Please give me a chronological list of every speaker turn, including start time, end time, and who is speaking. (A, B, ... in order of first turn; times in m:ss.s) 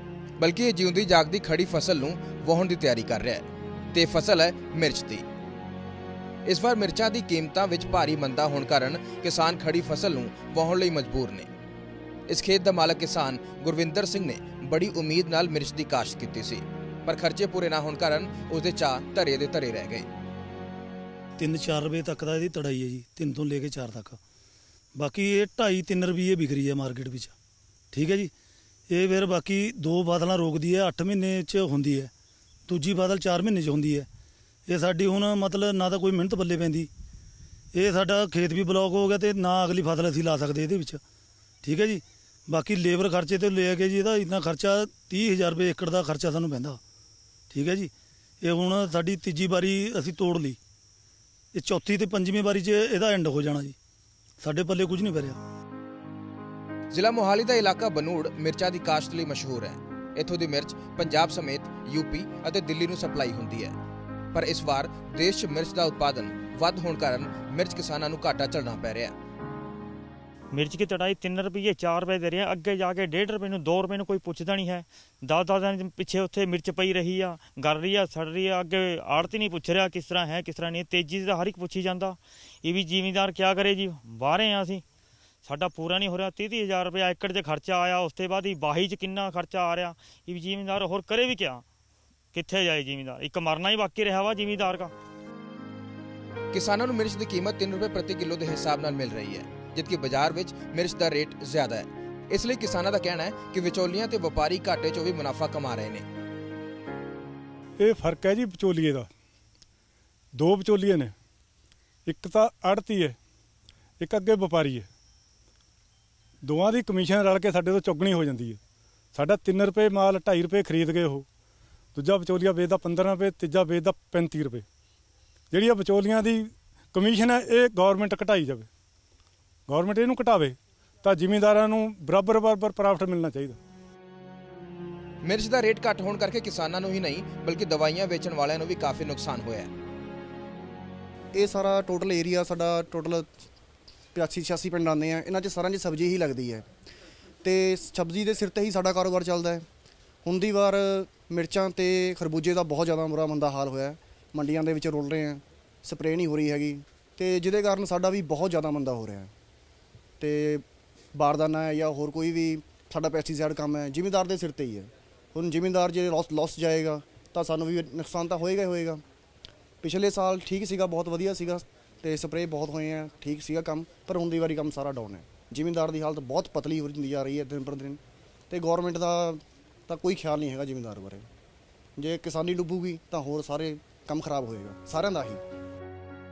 0:00.4-0:05.2 A
0:06.4-0:11.5 A
0:12.3-0:20.1 A
0:21.4-0:24.2 B
0:25.0-0:27.3 B
0:27.9-0:28.3 B
0:28.9-0:32.1 B
0:32.7-0:34.1 B
0:34.7-0:36.9 B
0:37.7-0:41.0 B
0:41.6-0:46.8 B
0:47.5-0:50.6 B
0:51.5-0:53.8 B
0:54.4-0:55.4 B
0:56.9-1:03.7 A
1:04.3-1:09.1 A
1:10.5-1:24.8 C
1:25.4-1:31.6 C
1:32.3-1:34.9 C
1:36.5-1:46.0 A
1:47.8-1:49.1 D
1:50.3-1:51.1 D
1:52.0-1:53.2 D
1:54.0-1:54.9 D
1:56.4-1:58.6 D
1:59.1-2:01.2 D
2:01.9-2:04.6 D
2:05.5-2:08.7 D
2:09.7-2:13.6 D
2:15.2-2:19.7 A
2:21.3-2:23.3 E
2:24.1-2:26.6 E
2:27.4-2:29.6 E
2:30.2-2:39.3 E
2:40.2-2:49.0 E
2:49.8-3:01.3 E
3:02.0-3:05.4 E